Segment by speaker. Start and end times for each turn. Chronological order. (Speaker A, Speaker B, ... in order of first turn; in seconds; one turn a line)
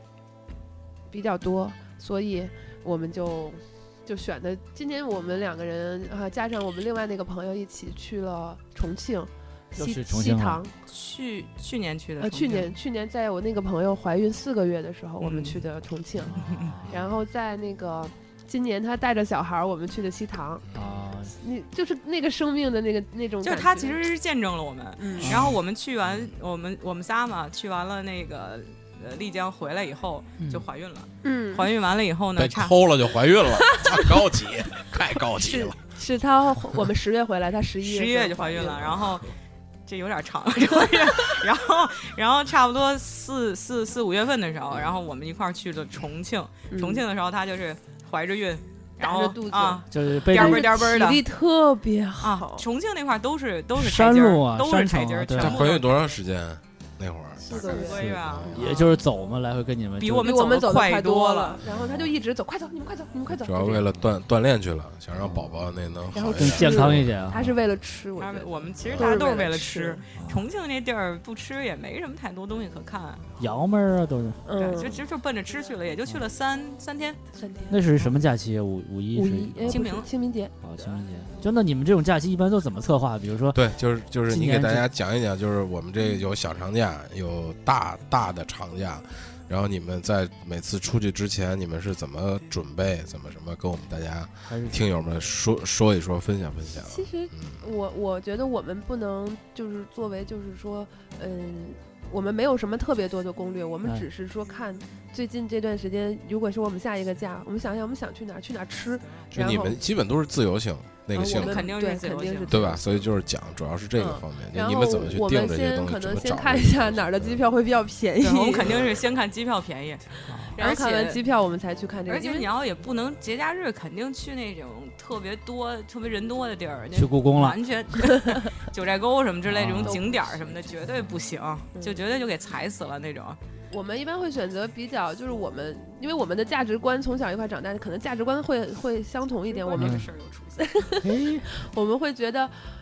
Speaker A: 1.1-10.7
Speaker B: 9.7-10.6
Speaker C: 10.9-12.7
Speaker A: 12.2-20.6
Speaker C: 15.2-15.6
Speaker B: 16.4-17.0
Speaker C: 16.4-16.8
Speaker D: 20.7-21.0
Speaker B: 20.7-21.4
Speaker A: 21.4-24.0
Speaker C: 23.4-32.9
Speaker A: 25.0-25.4
Speaker B: 30.4-30.6
Speaker A: 31.2-31.7
Speaker D: 32.4-35.8
Speaker A: 33.7-34.1
Speaker A: 35.4-39.0
Speaker C: 37.8-39.3
Speaker C: 39.9-51.2
Speaker A: 46.7-47.0
Speaker A: 49.0-52.6
Speaker B: 49.9-50.7
Speaker C: 52.2-56.2
Speaker B: 53.8-55.6
Speaker D: 55.4-58.5
Speaker A: 57.4-58.9
Speaker C: 57.5-58.9
Speaker B: 58.5-60.3
Speaker C: 60.0-61.6
Speaker A: 60.2-63.9
Speaker D: 61.7-62.1
Speaker D: 63.3-67.1
Speaker A: 66.1-70.0
Speaker B: 66.3-67.5
Speaker C: 68.2-73.3
Speaker B: 70.2-70.4
Speaker B: 73.4-74.4
Speaker A: 74.5-75.0
Speaker C: 74.5-77.2
Speaker A: 77.3-77.8
Speaker B: 77.7-79.9
Speaker A: 79.1-80.5
Speaker C: 79.7-80.1
Speaker B: 80.6-83.6
Speaker D: 83.5-97.6
Speaker B: 84.3-84.9
Speaker B: 94.5-94.8
Speaker A: 96.9-109.8
Speaker D: 109.3-111.7
Speaker A: 111.1-112.9
Speaker C: 111.2-112.6
Speaker D: 112.5-117.4
Speaker A: 114.0-118.9
Speaker C: 118.2-121.2
Speaker B: 120.3-120.5
Speaker A: 120.6-122.5
Speaker C: 122.1-133.4
Speaker B: 126.9-127.6
Speaker B: 129.5-130.0
Speaker A: 129.8-130.2
Speaker A: 131.8-132.0
Speaker A: 133.7-140.0
Speaker C: 139.5-140.8
Speaker B: 139.8-140.1
Speaker A: 140.6-142.5
Speaker B: 141.0-141.5